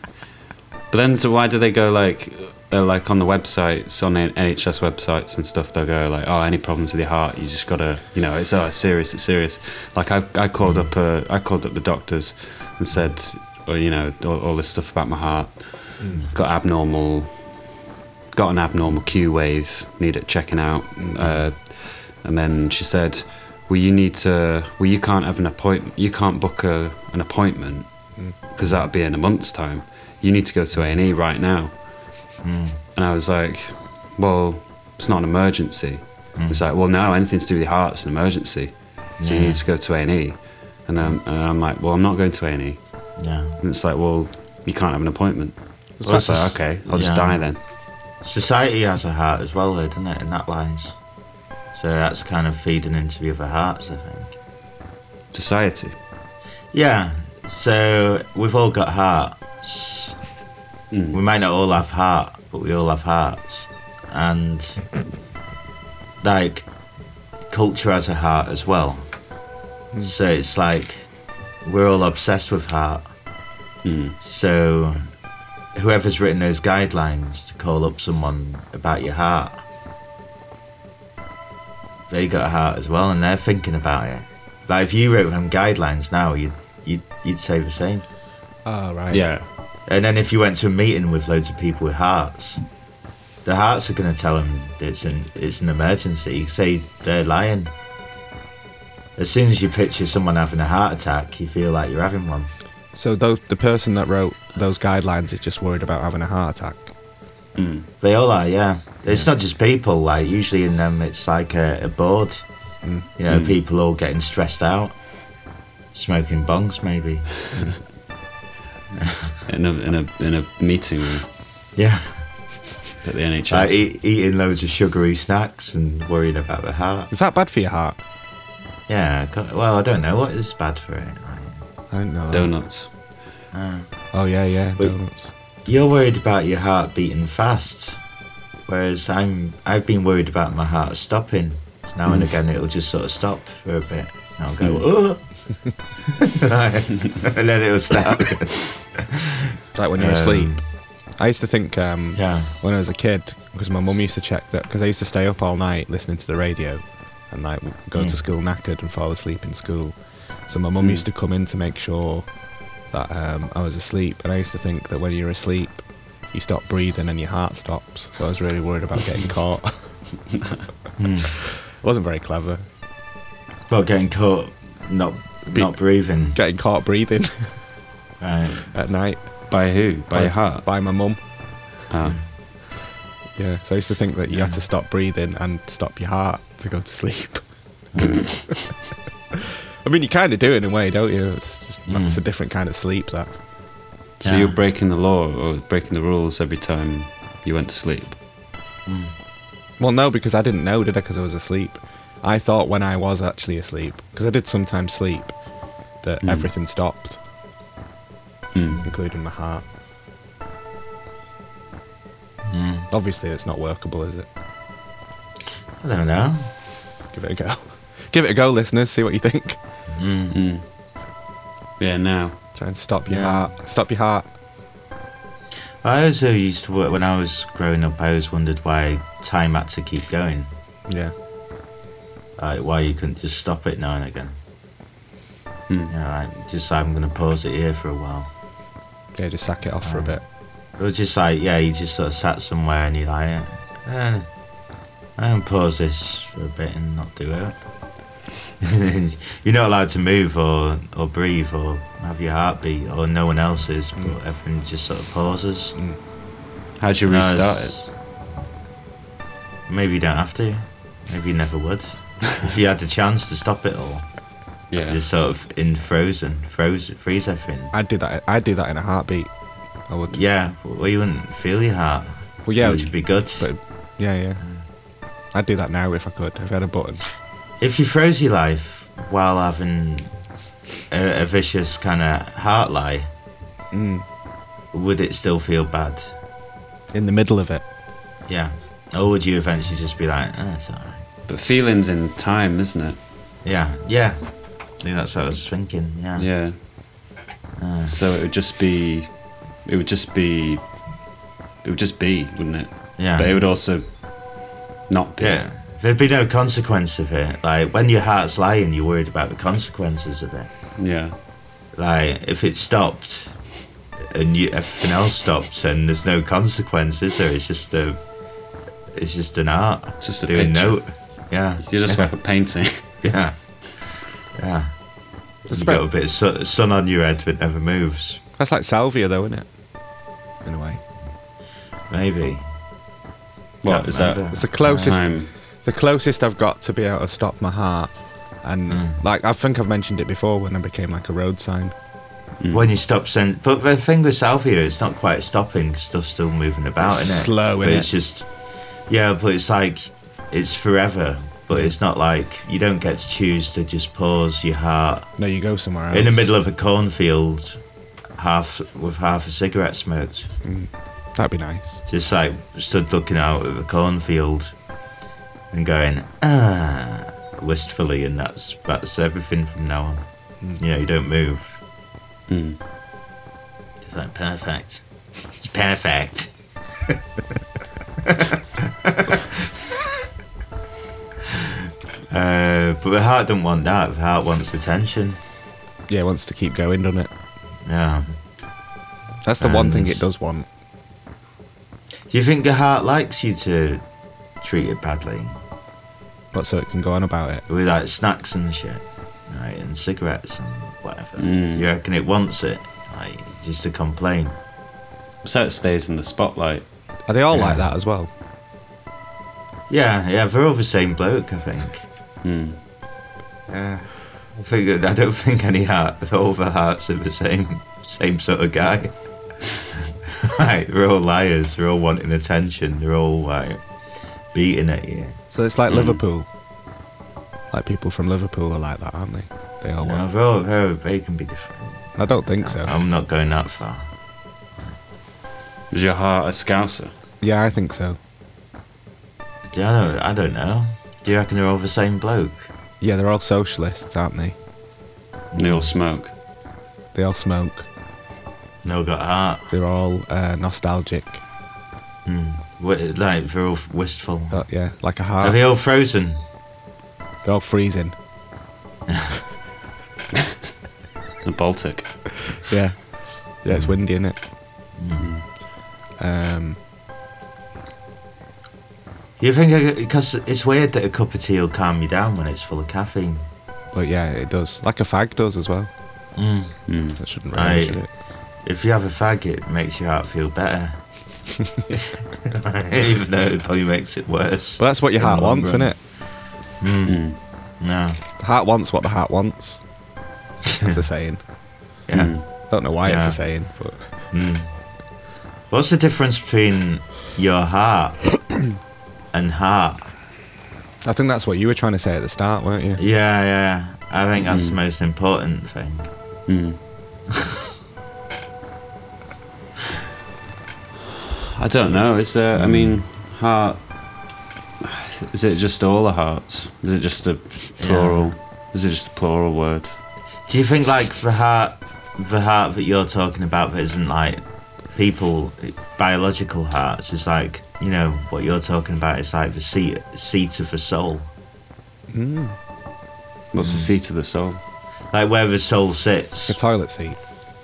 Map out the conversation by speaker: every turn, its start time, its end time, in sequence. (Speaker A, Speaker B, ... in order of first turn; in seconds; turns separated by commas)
Speaker A: 0.9-17.6, Speaker B: 10.6-10.9, Speaker A: 18.3-27.9, Speaker C: 21.0-21.4, Speaker A: 28.5-31.8, Speaker B: 32.4-32.8, Speaker A: 33.0-42.8, Speaker B: 36.4-36.6, Speaker B: 39.2-39.6, Speaker B: 43.2-43.6, Speaker A: 43.6-47.6, Speaker C: 46.0-46.5, Speaker B: 46.0-47.4, Speaker B: 48.2-51.0, Speaker B: 51.8-54.4, Speaker A: 55.3-56.0, Speaker B: 56.7-60.2, Speaker A: 60.9-61.2, Speaker B: 61.1-64.8, Speaker B: 66.2-66.7, Speaker B: 67.5-69.1, Speaker B: 70.0-71.1, Speaker B: 71.6-73.1, Speaker A: 73.8-74.2, Speaker B: 74.2-75.0, Speaker B: 75.8-79.6, Speaker B: 82.1-88.1, Speaker C: 88.6-89.2, Speaker A: 89.1-89.5, Speaker B: 89.9-92.6, Speaker B: 93.5-97.7, Speaker B: 99.2-102.5, Speaker C: 103.0-106.9, Speaker A: 107.6-107.9, Speaker B: 108.0-112.5, Speaker C: 112.8-113.1, Speaker B: 113.2-115.0, Speaker A: 113.3-113.6, Speaker B: 115.9-117.4, Speaker B: 119.0-119.3, Speaker A: 119.5-121.3, Speaker B: 121.8-122.2, Speaker A: 123.0-123.8, Speaker B: 123.5-127.1, Speaker C: 127.1-128.0, Speaker B: 128.9-131.6, Speaker C: 131.9-132.5, Speaker A: 132.3-132.9, Speaker B: 133.5-133.9, Speaker C: 134.1-135.3, Speaker B: 135.6-138.0, Speaker B: 138.7-145.3, Speaker A: 144.6-144.9, Speaker B: 146.2-149.4, Speaker C: 149.8-150.6, Speaker B: 150.0-150.6, Speaker C: 151.2-162.3, Speaker B: 152.1-152.5, Speaker B: 157.9-158.2, Speaker C: 162.9-169.8, Speaker B: 171.0-171.3, Speaker C: 171.4-172.7, Speaker B: 173.7-176.4, Speaker C: 176.3-177.6, Speaker B: 178.2-178.7, Speaker C: 178.7-179.5, Speaker A: 179.5-180.7, Speaker C: 180.1-181.2, Speaker A: 181.9-182.2, Speaker C: 183.4-187.4, Speaker B: 184.3-184.6, Speaker C: 189.3-193.3, Speaker B: 191.9-192.2, Speaker A: 194.2-198.2, Speaker B: 194.2-194.6, Speaker B: 198.9-199.1, Speaker C: 199.8-205.3, Speaker C: 206.0-207.2, Speaker A: 206.2-206.5, Speaker A: 208.5-208.8, Speaker C: 208.8-209.6, Speaker B: 212.5-212.9, Speaker C: 212.9-214.3, Speaker B: 215.8-216.5, Speaker C: 217.1-219.6, Speaker B: 219.9-220.4, Speaker A: 220.3-220.6, Speaker A: 221.8-222.4, Speaker C: 222.6-224.3, Speaker B: 223.1-223.4, Speaker B: 225.8-230.5, Speaker C: 230.9-231.1, Speaker B: 232.4-234.3, Speaker B: 235.9-238.3, Speaker C: 239.1-240.2, Speaker B: 239.8-240.2, Speaker B: 240.8-244.3, Speaker B: 245.2-247.6, Speaker B: 248.6-255.8, Speaker A: 256.8-257.8, Speaker B: 257.1-257.9, Speaker B: 259.7-264.1, Speaker A: 264.7-265.0, Speaker B: 264.9-267.7, Speaker C: 267.7-269.3, Speaker C: 269.9-270.2, Speaker B: 270.1-273.5, Speaker C: 272.4-274.4, Speaker C: 275.3-277.0, Speaker B: 277.6-280.1, Speaker B: 280.9-283.1, Speaker C: 283.7-284.1, Speaker B: 284.7-286.2, Speaker C: 286.9-287.6, Speaker B: 288.3-291.0, Speaker A: 291.3-293.0, Speaker B: 293.4-294.2, Speaker B: 294.8-296.3, Speaker A: 296.2-296.6, Speaker B: 297.6-297.9, Speaker A: 297.9-299.1, Speaker A: 299.6-300.6, Speaker A: 301.6-303.9, Speaker B: 303.0-303.4, Speaker A: 304.9-305.4, Speaker B: 305.2-310.5, Speaker A: 310.8-311.2, Speaker B: 311.8-313.4, Speaker B: 314.0-318.0, Speaker B: 318.9-322.1, Speaker A: 320.0-320.8, Speaker A: 321.6-322.9, Speaker B: 323.0-323.4, Speaker B: 324.4-324.7, Speaker B: 325.5-328.2, Speaker C: 325.5-325.8, Speaker C: 328.4-329.5, Speaker C: 330.4-330.8, Speaker B: 331.9-332.4, Speaker A: 333.6-335.3, Speaker B: 333.6-334.5, Speaker C: 334.3-341.7, Speaker B: 338.7-339.0, Speaker A: 342.4-342.7, Speaker B: 342.5-348.3, Speaker C: 346.8-347.9, Speaker B: 348.9-355.1, Speaker C: 355.2-356.3, Speaker B: 355.9-357.6, Speaker B: 358.2-360.3, Speaker C: 360.4-361.8, Speaker B: 361.9-364.6, Speaker B: 365.5-370.1, Speaker B: 370.6-371.6, Speaker A: 372.3-372.6, Speaker B: 373.8-374.9, Speaker B: 375.4-376.3, Speaker B: 378.0-379.5, Speaker B: 382.1-385.2, Speaker C: 385.9-387.1, Speaker B: 387.7-388.1, Speaker C: 389.2-390.5, Speaker B: 389.4-390.0, Speaker B: 392.1-393.8, Speaker B: 394.4-395.4, Speaker C: 396.3-397.4, Speaker B: 397.5-404.4, Speaker A: 401.2-401.7, Speaker A: 405.2-406.7, Speaker C: 407.1-408.1, Speaker B: 407.3-407.6, Speaker B: 409.7-411.9, Speaker A: 412.2-412.6, Speaker B: 413.5-418.9, Speaker B: 419.7-423.6, Speaker B: 424.3-425.2, Speaker C: 425.3-426.3, Speaker A: 425.7-426.0, Speaker C: 427.5-430.0, Speaker B: 429.8-433.9, Speaker C: 432.0-432.7, Speaker A: 435.7-436.9, Speaker C: 437.2-438.0, Speaker B: 439.5-442.5, Speaker C: 442.8-444.4, Speaker B: 445.3-445.7, Speaker A: 445.4-446.1, Speaker C: 446.9-447.7, Speaker B: 448.6-449.5, Speaker C: 449.5-451.2, Speaker B: 452.1-454.4, Speaker C: 454.3-455.4, Speaker B: 455.2-456.2, Speaker C: 457.2-458.0, Speaker A: 461.2-462.4, Speaker C: 462.5-464.2, Speaker B: 463.5-463.8, Speaker B: 464.8-465.1, Speaker A: 465.0-465.2, Speaker C: 466.0-466.6, Speaker B: 469.2-473.2, Speaker C: 473.7-475.7, Speaker B: 476.2-476.7, Speaker A: 476.7-477.0, Speaker C: 477.0-477.9, Speaker B: 477.3-477.9, Speaker B: 478.4-480.8, Speaker B: 481.7-485.8, Speaker C: 484.6-485.8, Speaker B: 486.6-487.0, Speaker A: 486.9-487.2, Speaker B: 487.6-488.0, Speaker C: 488.2-489.6, Speaker B: 490.5-490.8, Speaker C: 490.6-491.2, Speaker B: 491.9-493.2, Speaker A: 491.9-492.2, Speaker C: 492.5-493.9, Speaker B: 494.1-494.5, Speaker B: 495.5-498.1, Speaker B: 499.1-499.9, Speaker C: 500.8-502.8, Speaker B: 502.8-505.9, Speaker A: 504.2-504.6, Speaker A: 506.3-506.6, Speaker A: 511.4-513.6, Speaker B: 512.3-512.8, Speaker A: 514.6-519.7, Speaker B: 517.6-518.1, Speaker B: 520.3-531.1, Speaker C: 531.9-532.4, Speaker A: 533.3-534.4, Speaker B: 533.4-533.7, Speaker B: 534.9-536.4, Speaker C: 536.3-537.0